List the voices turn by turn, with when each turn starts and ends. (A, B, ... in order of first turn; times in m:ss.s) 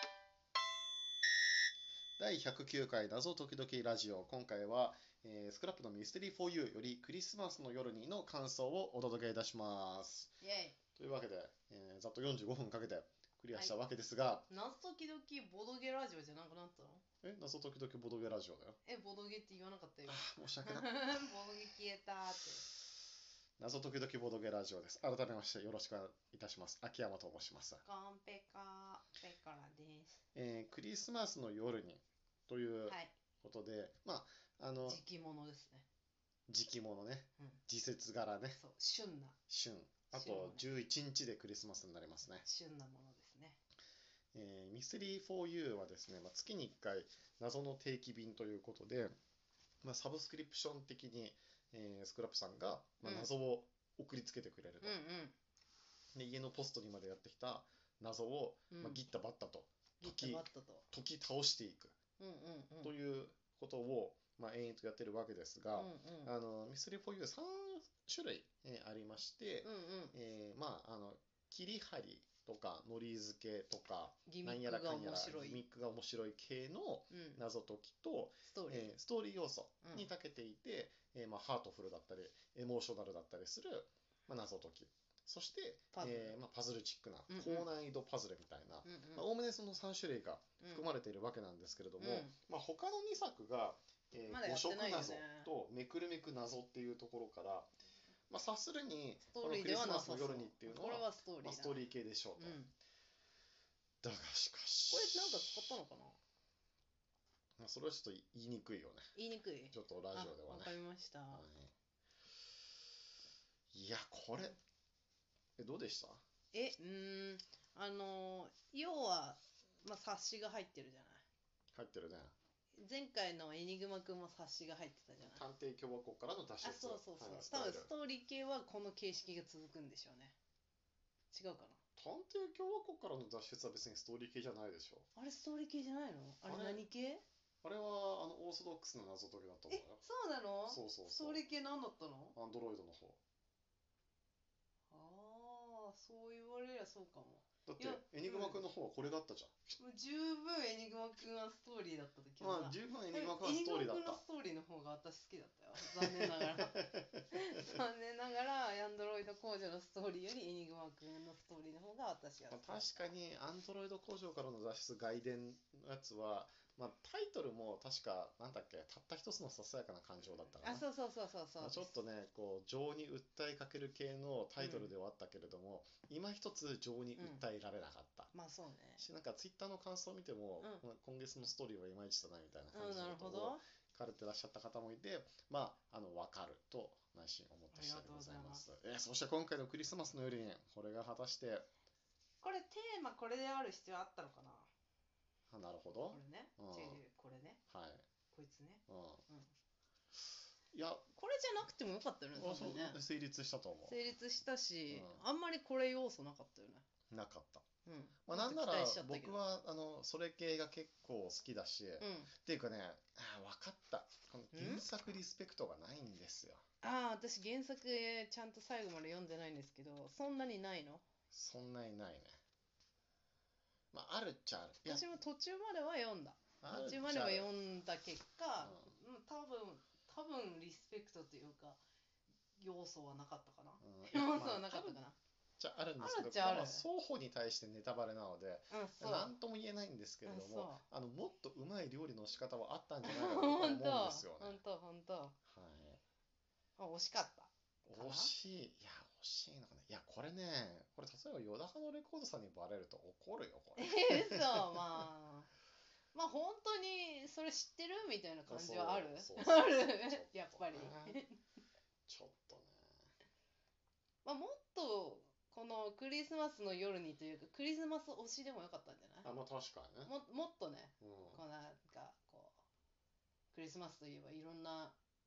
0:02.2-0:10.3 A
0:10.4-0:10.8 B
0:10.9-0:14.5 A
0:14.5-0:17.0 B
0:17.2-0:18.8 A
0:18.8-0:22.6 B
0:20.1-0:21.3 A
0:23.6-0:27.8 A
0:27.8-0:30.2 B
0:30.3-0:35.0 A
0:32.9-0:33.1 B
0:34.8-0:35.8 B
0:36.5-0:38.6 A
0:38.5-0:39.4 B
0:39.5-0:42.4 A
0:40.1-0:40.6 B
0:42.4-0:43.6 B
0:44.3-0:49.2 A
0:49.8-0:55.0 A
0:53.0-0:53.3 B
0:54.8-0:55.3 B
0:56.1-1:01.9 A
0:58.7-0:59.0 B
1:00.0-1:00.9 B
1:02.2-1:02.9 B
1:02.8-1:37.7 A
1:05.7-1:06.3 B
1:09.6-1:10.2 B
1:14.3-1:15.6 B
1:17.1-1:17.4 B
1:18.5-1:18.9 B
1:25.9-1:26.3 B
1:27.3-1:27.7 B
1:28.8-1:29.2 B
1:32.0-1:32.3 B
1:34.3-1:35.5 B
1:38.3-1:42.6 A
1:39.3-1:41.8 B
1:42.4-1:42.7 B
1:44.0-1:45.7 A
1:44.9-1:46.2 B
1:47.6-1:49.0 A
1:49.1-1:51.4 B
1:49.7-1:50.8 A
1:51.3-1:51.7 A
1:53.7-1:54.6 A
1:55.6-1:56.2 A
1:56.5-2:01.2 B
2:01.7-2:02.3 A
2:02.7-2:05.4 B
2:05.2-2:07.9 A
2:06.6-2:10.4 B
2:11.3-2:11.8 B
2:12.0-2:15.1 A
2:15.1-2:17.2 B
2:16.4-2:16.8 A
2:17.6-2:20.0 A
2:19.7-2:22.4 B
2:20.7-2:21.4 A
2:22.3-2:23.2 A
2:24.9-2:28.6 B
2:27.7-2:29.8 A
2:29.8-2:43.0 B
2:32.4-2:34.2 A
2:35.8-2:37.2 A
2:42.5-2:50.8 A
2:50.6-2:51.9 B
2:51.6-2:58.3 A
2:54.6-2:54.9 B
2:57.2-2:57.4 B
2:58.3-2:59.0 B
2:59.0-3:11.6 A
3:02.7-3:03.6 B
3:07.7-3:08.7 B
3:12.4-3:14.7 B
3:15.5-3:17.0 A
3:16.1-3:17.6 B
3:17.7-3:18.0 A
3:18.3-3:19.5 B
3:18.9-3:19.2 A
3:20.7-3:21.0 A
3:21.1-3:23.0 B
3:22.4-3:24.0 A
3:23.9-3:26.8 B
3:24.9-3:25.2 A
3:27.1-3:27.6 A
3:27.8-3:29.5 B
3:28.2-3:36.6 A
3:32.0-3:32.3 B
3:34.5-3:34.8 B
3:36.8-3:41.0 B
3:41.3-3:42.4 A
3:43.9-3:45.1 A
3:44.8-3:51.8 B
3:46.6-3:47.5 A
3:48.6-3:49.0 A
3:52.6-3:55.2 B
3:53.8-3:55.0 A
3:55.6-4:04.6 A
3:56.0-3:56.8 B
3:58.7-3:59.3 B
4:00.2-4:00.8 B
4:03.0-4:05.4 B
4:05.4-4:06.0 A
4:06.8-4:08.3 B
4:07.8-4:14.8 A
4:13.8-4:15.5 B
4:16.1-4:21.4 B
4:18.5-4:21.2 A
4:22.1-4:22.9 A
4:24.2-4:29.3 B
4:29.2-4:30.1 A
4:30.0-4:32.6 B
4:31.0-4:31.4 A
4:33.5-4:35.0 B